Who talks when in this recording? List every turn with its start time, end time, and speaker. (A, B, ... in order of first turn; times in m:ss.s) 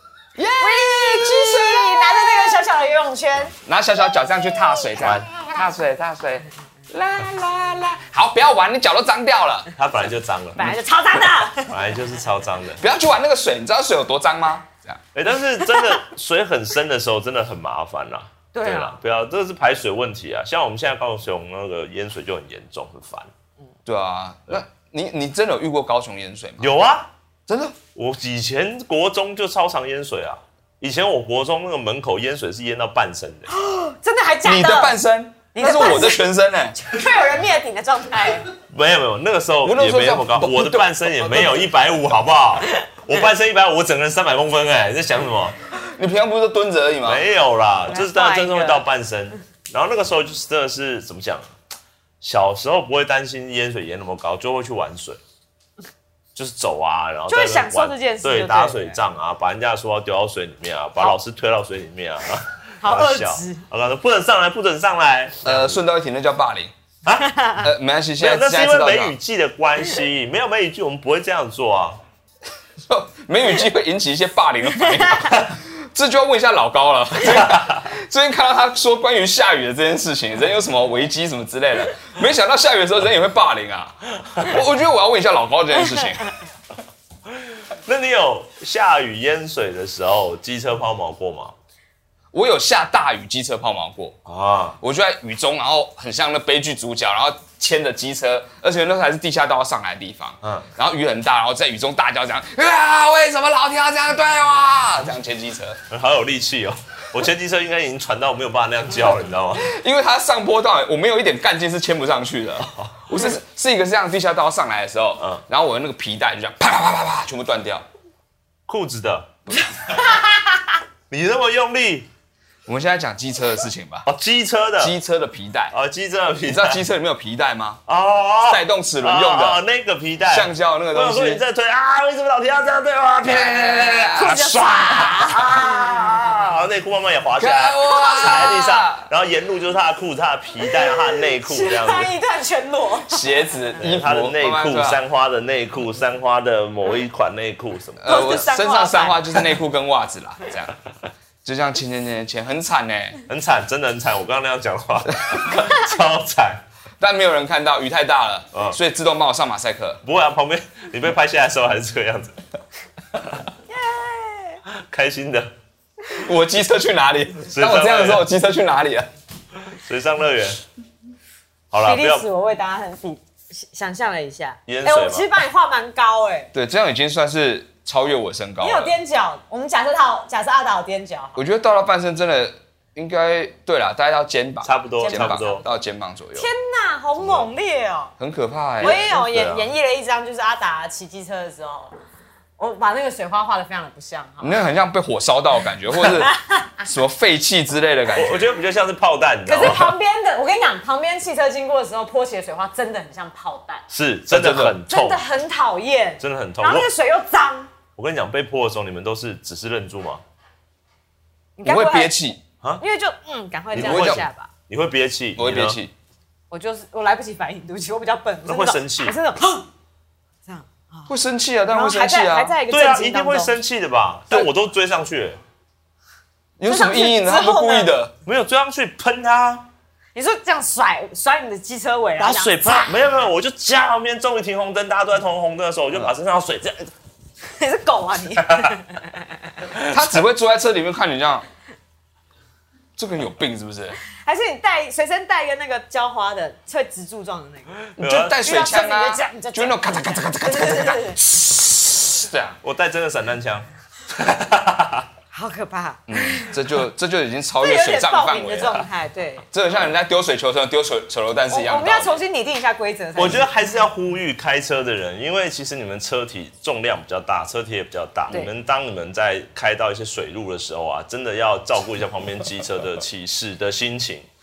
0:00.4-0:02.6 A
0:00.6-0:03.5 B
0:03.6-0:09.7 A
0:05.0-0:05.3 C
0:09.8-0:10.8 C
0:10.6-0:11.8 B
0:11.7-0:12.8 C
0:12.8-0:15.0 A
0:15.1-0:23.3 C
0:15.6-0:16.0 B
0:18.5-0:19.0 B
0:23.9-0:26.7 A
0:26.6-0:27.1 C
0:27.5-0:27.8 A
0:28.0-0:33.5 C
0:33.5-0:35.0 B
0:34.4-0:36.8 A
0:35.5-0:36.2 B
0:36.8-0:38.5 B
0:38.7-0:45.6 C
0:39.6-0:41.6 A
0:45.7-0:47.2 A
0:47.0-0:51.5 C
0:47.9-0:48.8 B
0:52.2-0:55.2 C
0:56.4-1:05.8 C
0:57.3-0:59.0 B
1:02.8-1:03.6 B
1:05.4-1:06.7 A
1:07.2-1:07.6 B
1:07.6-1:09.2 A
1:08.2-1:12.0 C
1:12.8-1:26.3 A
1:17.3-1:17.8 C
1:27.8-1:31.5 C
1:32.3-1:34.2 A
1:34.2-1:34.8 C
1:34.8-1:45.8 A
1:40.4-1:40.7 C
1:45.9-1:49.7 C
1:49.6-1:57.9 A
1:58.7-1:59.3 C
1:59.9-2:00.4 B
2:01.1-2:02.1 C
2:02.6-2:04.1 A
2:04.1-2:05.0 C
2:04.8-2:05.7 A
2:05.7-2:06.8 C
2:06.4-2:07.8 A
2:07.9-2:22.1 C
2:08.4-2:09.6 A
2:10.3-2:11.4 A
2:13.2-2:15.3 A
2:14.1-2:16.5 B
2:17.4-2:19.1 A
2:20.7-2:23.3 B
2:23.1-2:25.0 A
2:23.8-2:28.4 C
2:28.0-2:30.8 A
2:28.1-2:29.5 B
2:31.4-2:33.2 A
2:33.3-2:36.6 C
2:35.2-2:35.6 A
2:37.0-2:40.0 A
2:38.5-2:38.8 C
2:40.0-2:42.4 C
2:43.7-2:44.6 B
2:44.7-2:45.5 C
2:46.1-2:49.1 A
2:47.5-2:48.2 C
2:49.7-2:50.6 C
2:51.7-2:52.2 C
2:51.8-2:56.5 B
2:54.7-2:55.4 C
2:56.5-2:59.0 A
2:58.6-3:01.4 B
3:01.4-3:06.5 A
3:04.6-3:05.6 C
3:05.0-3:05.7 B
3:06.4-3:08.1 B
3:08.2-3:09.0 A
3:08.8-3:09.7 C
3:08.8-3:11.9 B
3:12.6-3:14.6 B
3:14.4-3:18.5 A
3:16.2-3:16.7 B
3:18.1-3:20.0 C
3:19.4-3:23.8 B
3:23.9-3:25.2 C
3:24.3-3:24.8 A
3:24.9-3:27.7 B
3:26.2-3:26.9 C
3:28.0-3:30.2 C
3:31.6-3:34.5 B
3:31.6-3:32.4 A
3:33.7-3:35.8 C
3:33.8-3:34.2 A
3:35.4-3:35.9 A
3:36.5-3:39.7 B
3:38.4-3:39.1 C
3:40.4-3:41.1 B
3:41.1-3:42.6 A
3:41.7-3:43.6 B
3:42.7-3:45.4 C
3:46.6-3:48.1 A
3:46.6-3:47.9 B
3:48.2-3:49.7 C
3:50.1-3:53.0 B
3:52.2-3:56.9 C
3:57.5-3:59.2 B
3:58.4-3:58.7 C
3:59.7-4:00.2 C
3:59.9-4:01.4 A
4:03.0-4:04.0 A
4:04.2-4:07.8 B
4:07.9-4:08.4 C
4:08.0-4:12.6 A
4:08.4-4:11.2 B
4:12.6-4:15.1 C
4:15.3-4:16.6 B
4:16.1-4:18.9 A
4:17.6-4:19.5 B
4:19.5-4:22.2 A
4:21.5-4:23.5 B
4:23.2-4:34.3 C